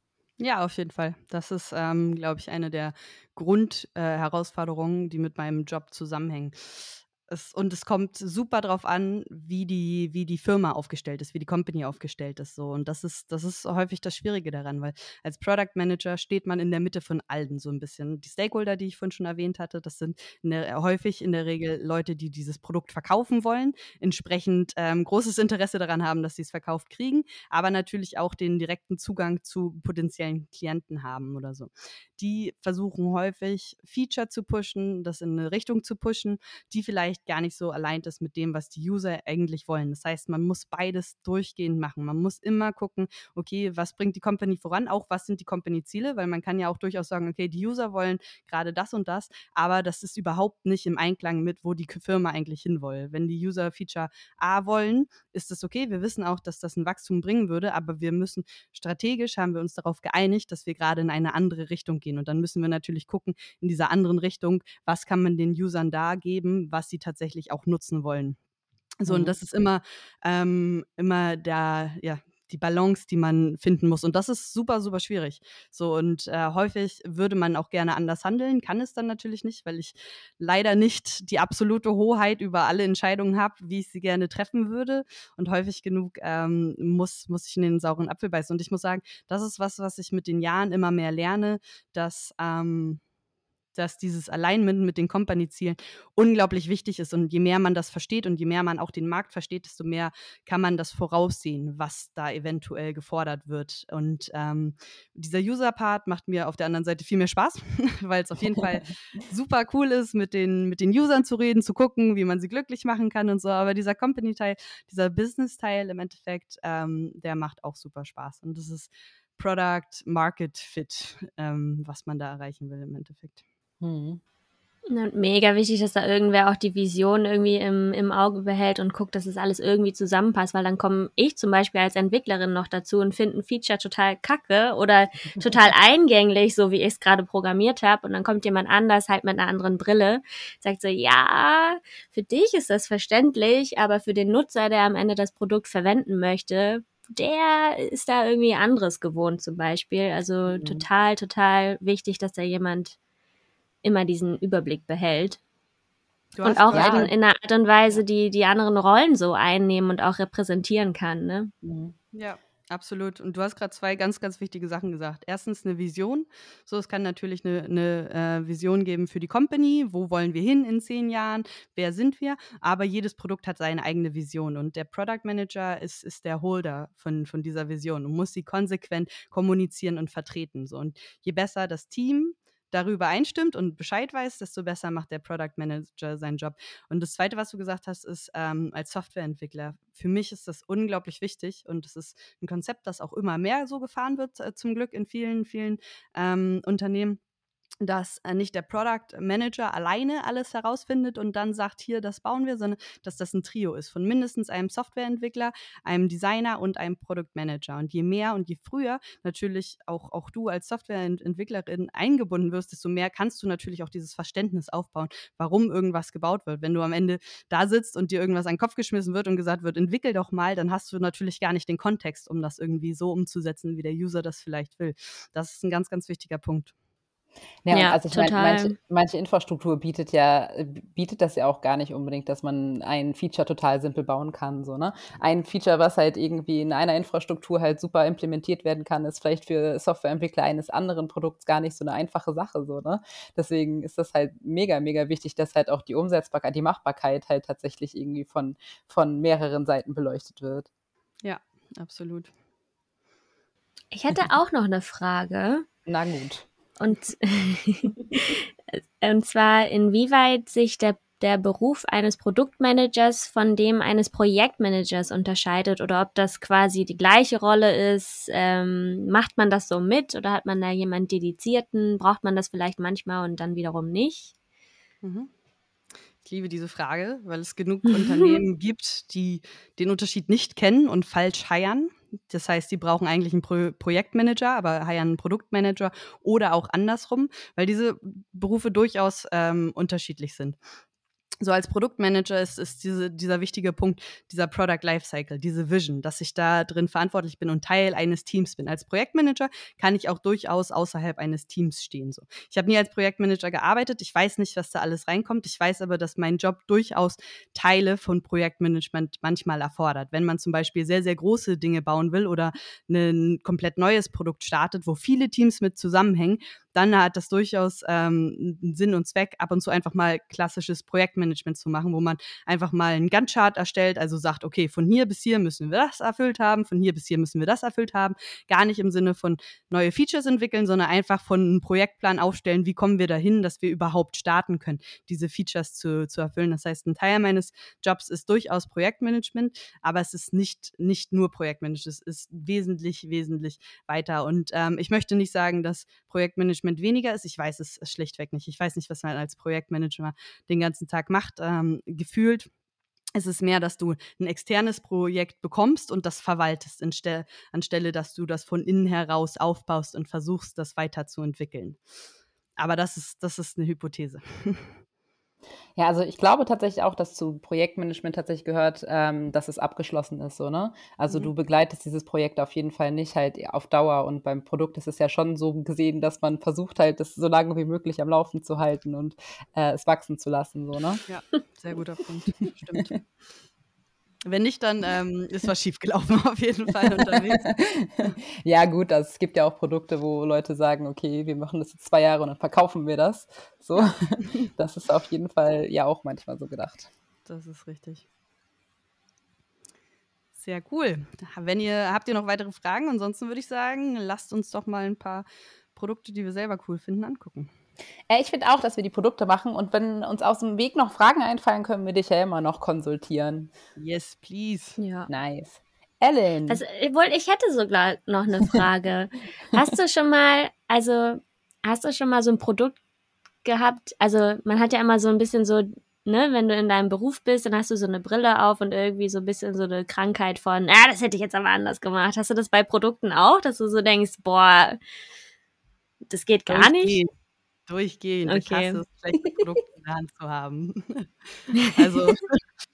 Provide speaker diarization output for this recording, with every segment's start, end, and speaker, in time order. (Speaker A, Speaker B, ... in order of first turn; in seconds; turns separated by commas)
Speaker A: 0.4-68.4, Speaker A: 69.0-93.0, Speaker B: 69.1-69.4, Speaker A: 93.8-123.4, Speaker B: 123.8-124.2, Speaker C: 124.9-153.0, Speaker B: 150.5-150.8, Speaker C: 153.8-155.4, Speaker A: 156.3-157.1, Speaker C: 156.4-161.5, Speaker B: 156.7-157.1, Speaker B: 161.6-161.9, Speaker A: 162.1-197.2, Speaker A: 197.8-226.7, Speaker B: 227.7-250.7, Speaker C: 227.7-228.8, Speaker A: 251.2-252.3, Speaker C: 253.9-255.7, Speaker B: 255.9-256.5, Speaker C: 256.8-274.3, Speaker A: 275.0-275.3, Speaker A: 276.2-290.6, Speaker A: 291.4-352.5, Speaker A: 353.2-361.8, Speaker A: 362.6-364.7, Speaker B: 365.8-381.0, Speaker A: 381.1-383.0, Speaker A: 384.2-387.5, Speaker B: 387.1-396.9, Speaker A: 397.2-398.1, Speaker A: 400.4-407.5, Speaker B: 408.1-413.5, Speaker A: 413.8-414.8, Speaker C: 414.8-415.1, Speaker B: 415.1-416.6, Speaker C: 416.5-422.8, Speaker C: 423.4-434.8, Speaker C: 436.1-437.0, Speaker A: 436.5-437.1, Speaker A: 437.7-442.4, Speaker C: 438.3-438.8